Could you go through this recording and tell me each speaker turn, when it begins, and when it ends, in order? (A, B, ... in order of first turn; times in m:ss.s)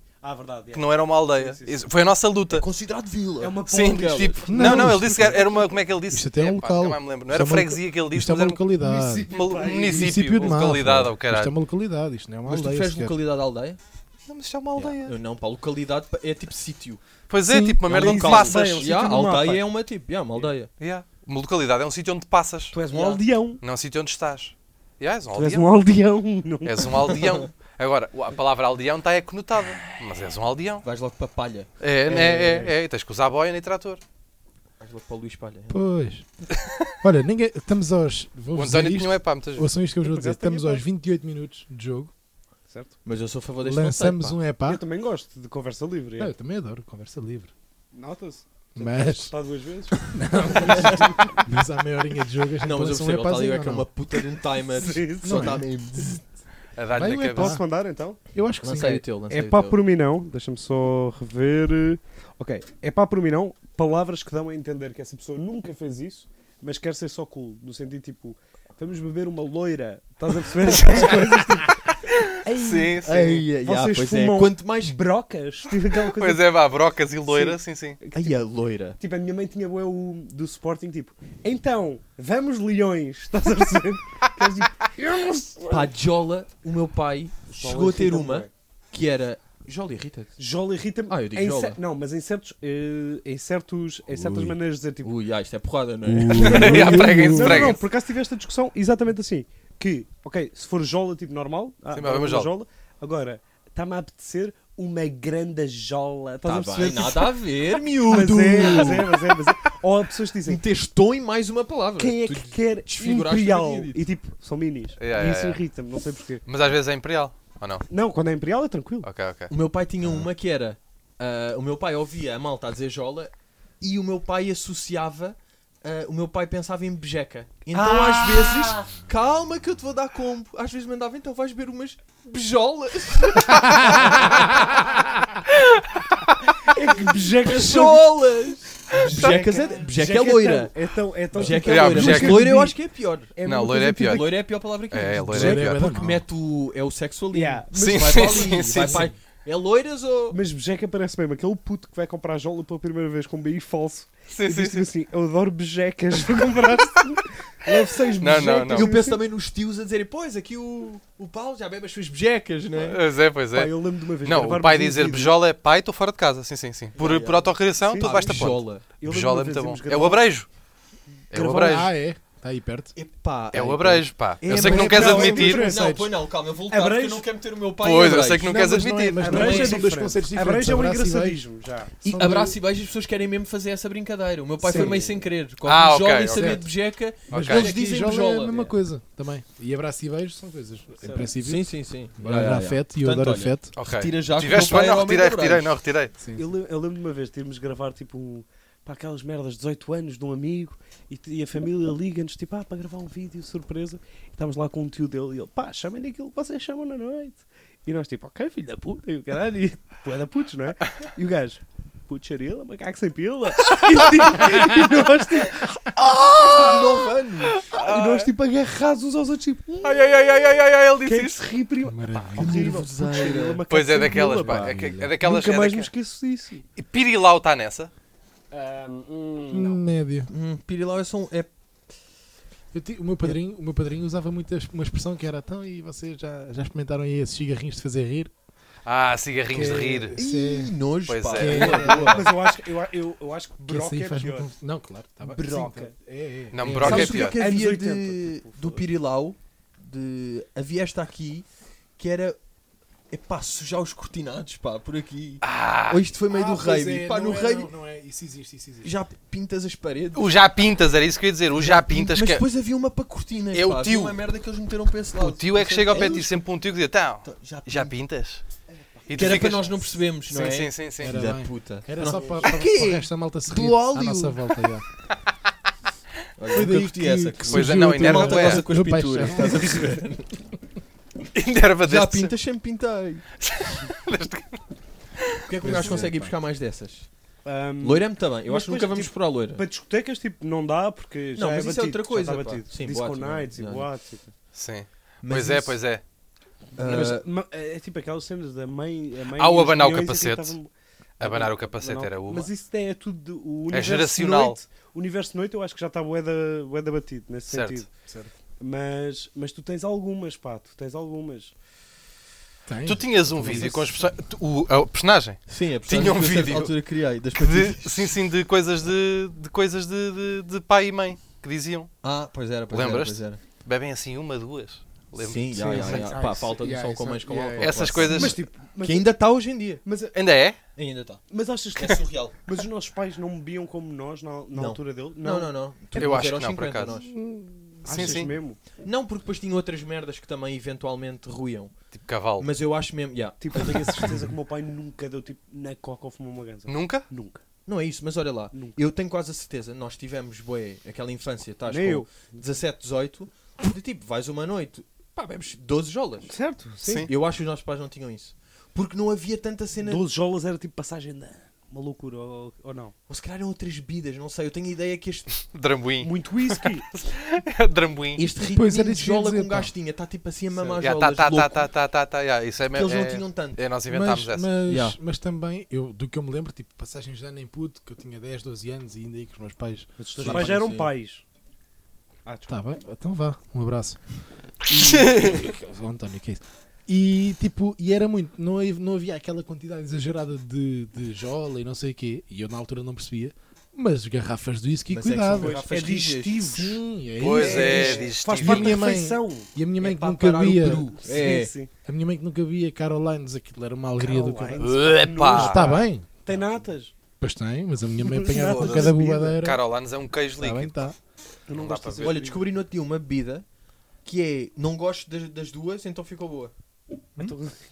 0:00.2-0:01.8 A
0:00.7-0:02.7 B
0:02.5-0:04.4 C
0:03.4-0:05.4 A
0:03.7-0:08.6 B
0:04.5-0:05.5 D
0:06.1-0:09.3 D
0:08.8-0:10.5 A
0:09.3-0:11.5 B
0:09.8-0:13.2 D
0:12.4-0:13.8 C
0:14.3-0:15.2 B
0:14.8-0:17.0 C
0:17.3-0:18.8 B
0:17.5-0:17.9 D
0:17.9-0:20.7 C
0:17.9-0:19.7 A
0:20.8-0:22.8 B
0:22.7-0:23.6 A
0:22.9-0:23.2 C
0:23.6-0:25.7 B
0:25.3-0:27.2 A
0:26.6-0:30.8 B
0:30.8-0:31.7 C
0:31.8-0:34.0 B
0:32.1-0:32.7 A
0:32.4-0:32.7 C
0:34.8-0:35.8 C
0:35.7-0:36.3 D
0:37.0-0:42.1 D
0:38.6-0:39.7 B
0:40.0-0:40.8 A
0:42.7-0:42.9 A
0:43.0-0:44.4 C
0:43.6-0:44.8 D
0:44.7-0:46.3 A
0:46.2-0:47.5 D
0:47.9-0:51.3 A
0:48.8-0:49.3 D
0:49.9-0:53.9 D
0:50.6-0:51.3 C
0:52.6-0:56.2 C
0:54.8-0:55.6 A
0:55.2-0:56.2 D
0:56.8-0:57.6 B
0:56.9-0:57.6 D
0:57.3-0:58.2 A
0:58.3-0:59.0 D
0:58.6-0:59.8 C
0:59.3-1:11.9 A
1:12.1-1:13.3 B
1:12.4-1:16.4 A
1:13.0-1:15.0 C
1:16.1-1:18.0 B
1:17.3-1:18.4 A
1:18.1-1:19.0 C
1:19.0-1:25.9 A
1:25.7-1:30.4 C
1:27.5-1:28.5 A
1:30.4-1:35.1 A
1:31.1-1:31.8 C
1:34.1-1:34.6 D
1:35.0-1:37.1 C
1:36.0-1:37.8 D
1:36.3-1:37.8 B
1:36.4-1:50.6 A
1:41.9-1:42.5 B
1:46.4-1:49.4 C
1:50.4-1:54.0 C
1:52.0-1:56.4 A
1:55.0-1:55.6 B
1:56.5-1:57.8 B
1:57.9-1:59.1 A
1:59.0-1:59.5 B
1:59.5-2:14.9 C
2:07.7-2:08.7 B
2:13.6-2:14.0 B
2:15.5-2:16.1 B
2:16.7-2:18.1 A
2:17.0-2:20.7 C
2:19.0-2:22.8 A
2:19.0-2:19.5 B
2:21.3-2:23.3 C
2:21.6-2:22.6 B
2:23.3-2:24.4 A
2:23.4-2:25.9 B
2:24.0-2:30.4 C
2:25.3-2:26.2 D
2:27.3-2:28.6 A
2:27.7-2:29.1 B
2:28.7-2:29.1 D
2:30.3-2:39.2 A
2:34.3-2:34.9 B
2:37.9-2:43.0 C
2:38.2-2:39.0 B
2:42.7-2:50.5 B
2:43.5-2:45.4 A
2:47.0-2:48.8 C
2:47.8-2:48.5 A
2:49.0-2:50.2 A
2:51.3-2:51.8 A
2:51.3-2:51.9 B
2:51.6-2:53.0 D
2:53.0-2:58.6 C
2:53.5-2:55.7 B
2:54.4-2:56.0 A
2:54.5-2:56.1 D
2:56.7-2:57.3 A
2:57.8-2:59.7 B
2:58.4-3:01.4 D
2:59.2-3:02.0 A
2:59.3-2:59.7 C
3:02.0-3:02.6 D
3:02.1-3:08.7 C
3:04.6-3:05.2 A
3:05.6-3:06.6 B
3:06.3-3:06.7 D
3:07.3-3:13.7 D
3:07.3-3:07.8 B
3:11.0-3:11.3 A
3:11.4-3:15.8 C
3:13.8-3:16.1 B
3:16.2-3:16.5 D
3:16.3-3:37.1 A
3:36.4-3:36.8 B
3:36.4-3:37.6 C
3:37.5-3:38.3 B
3:37.6-3:40.1 A
3:39.8-3:41.5 B
3:41.0-3:46.6 A
3:41.8-3:42.8 D
3:42.4-3:43.6 C
3:43.7-3:45.9 B
3:44.4-3:45.2 D
3:46.8-3:47.9 B
3:48.5-3:49.8 A
3:49.5-3:50.3 D
3:50.3-3:51.5 C
3:52.7-3:58.3 D
3:58.8-4:00.2 B
3:59.5-4:00.7 D
4:00.2-4:02.3 C
4:01.1-4:02.1 B
4:01.3-4:02.3 D
4:01.5-4:04.5 A
4:03.7-4:07.3 D
4:05.2-4:05.9 A
4:06.5-4:07.4 B
4:06.8-4:11.5 C
4:06.9-4:08.8 A
4:12.0-4:12.4 C
4:13.1-4:17.7 C
4:15.4-4:16.0 B
4:16.3-4:19.0 D
4:18.8-4:20.3 C
4:20.2-4:22.4 B
4:21.5-4:26.5 C
4:23.5-4:24.2 B
4:25.2-4:28.4 B
4:25.9-4:26.2 A
4:27.2-4:27.9 C
4:29.1-4:31.3 B
4:29.1-4:34.5 C
4:31.0-4:34.8 D
4:36.4-4:40.3 C
4:36.5-4:40.0 D
4:37.5-4:38.7 B
4:41.3-4:42.3 B
4:41.8-4:43.2 C
4:43.4-4:44.6 B
4:45.2-4:45.8 B
4:45.4-4:47.1 C
4:45.6-4:46.3 D
4:47.4-4:54.3 A
4:47.8-4:49.6 C
4:51.4-4:53.9 C
4:54.5-4:56.0 B
4:55.2-4:55.8 C
4:56.8-4:57.3 C
4:56.8-5:07.9 A
4:59.4-5:00.6 B
5:01.2-5:02.5 B
5:03.7-5:04.6 B
5:07.5-5:07.8 B
5:08.1-5:08.3 D
5:08.6-5:11.5 A
5:12.7-5:13.8 D
5:12.8-5:16.7 B
5:15.5-5:18.2 C
5:17.4-5:21.9 B
5:22.0-5:23.4 C
5:22.7-5:26.1 B
5:25.2-5:29.8 C
5:25.6-5:28.0 D
5:25.7-5:26.0 A
5:27.6-5:28.4 B
5:28.0-5:29.1 A
5:29.8-5:30.2 A
5:30.1-5:30.6 B
5:30.8-5:31.2 C
5:31.3-5:35.5 A
5:31.8-5:32.4 C
5:34.5-5:37.1 C
5:36.0-5:37.0 B
5:37.0-5:38.3 D
5:37.8-5:38.6 A
5:37.9-5:38.3 B
5:38.8-5:41.7 C
5:41.9-5:42.5 B
5:42.4-5:44.2 C
5:43.4-5:47.4 A
5:46.7-5:47.0 B
5:47.7-5:56.3 C
5:51.7-5:52.4 A
5:56.3-5:57.1 A
5:56.8-5:57.1 B
5:57.1-6:00.0 C
5:59.8-6:02.9 A
6:03.1-6:05.4 C
6:05.4-6:08.2 B
6:06.0-6:06.9 A
6:08.2-6:11.7 C
6:08.5-6:09.7 D
6:10.8-6:14.5 B
6:12.7-6:13.6 C
6:13.9-6:20.6 D
6:14.7-6:15.0 C
6:20.0-6:21.2 A
6:20.2-6:20.9 C
6:22.3-6:22.6 A
6:22.5-6:24.0 D
6:24.6-6:35.6 D
6:24.8-6:25.3 B
6:34.9-6:36.6 C
6:35.3-6:39.5 A
6:36.5-6:40.9 D
6:37.2-6:38.8 B
6:39.8-6:41.5 C
6:41.0-6:41.7 A
6:41.8-6:44.7 D
6:44.0-6:46.9 A
6:44.6-6:45.6 B
6:45.3-6:46.4 D
6:47.2-6:49.6 D
6:48.0-6:49.4 A
6:48.4-6:50.7 B
6:50.4-6:51.0 D
6:51.5-6:52.4 A
6:51.5-6:52.2 B
6:52.0-6:53.4 C
6:54.0-6:56.5 C
6:57.2-6:57.6 A